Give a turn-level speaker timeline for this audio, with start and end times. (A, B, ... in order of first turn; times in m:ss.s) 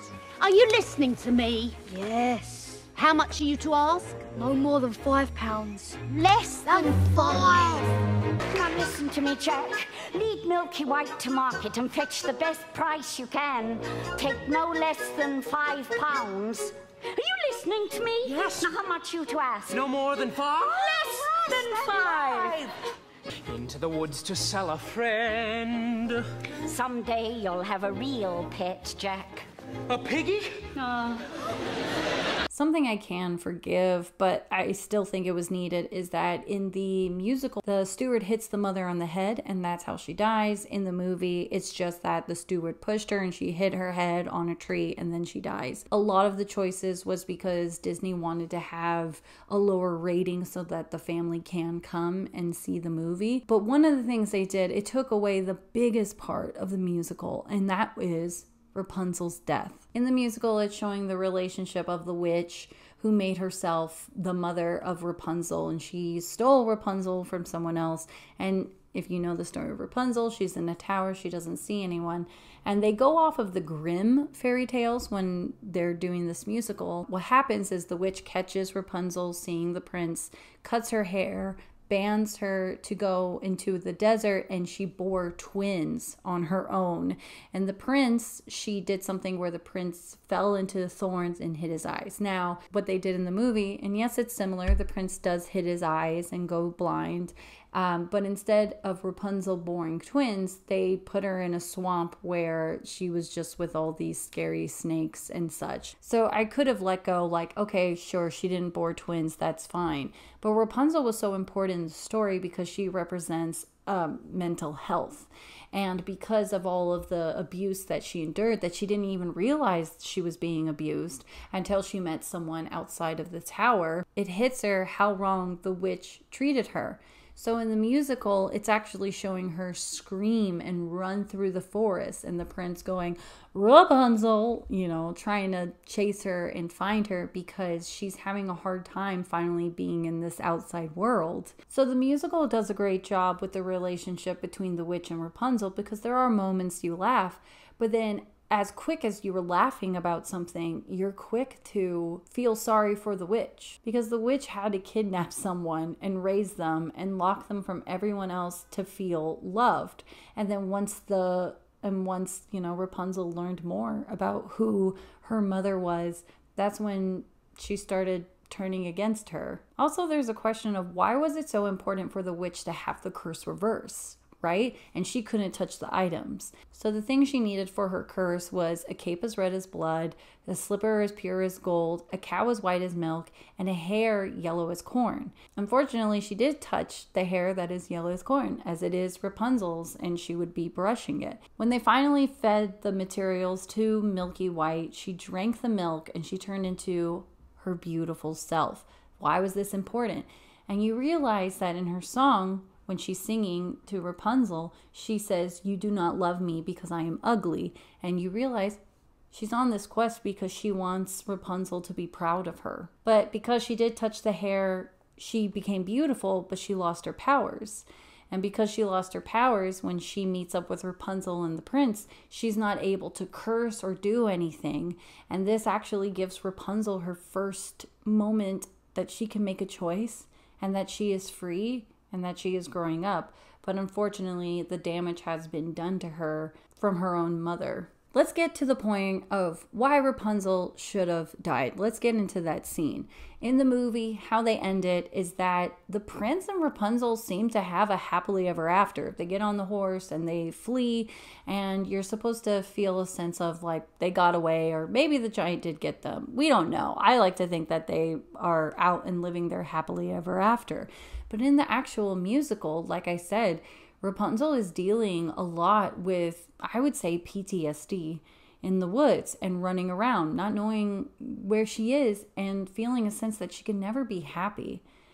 0:00.4-0:01.8 A
0:01.9-0:02.9 B
0:02.9-0:04.3 A
0:04.3-0:06.1 B
0:06.1-0:07.9 A
0:06.7-0:07.7 B
0:08.5-0:19.9 C
0:18.3-0:18.7 D
0:19.7-0:22.6 D
0:20.6-0:22.7 C
0:23.5-0:26.2 D
0:26.6-0:29.5 C
0:29.9-0:30.8 D
0:30.9-0:31.2 C
0:32.5-3:28.8 E
3:29.3-4:34.8 E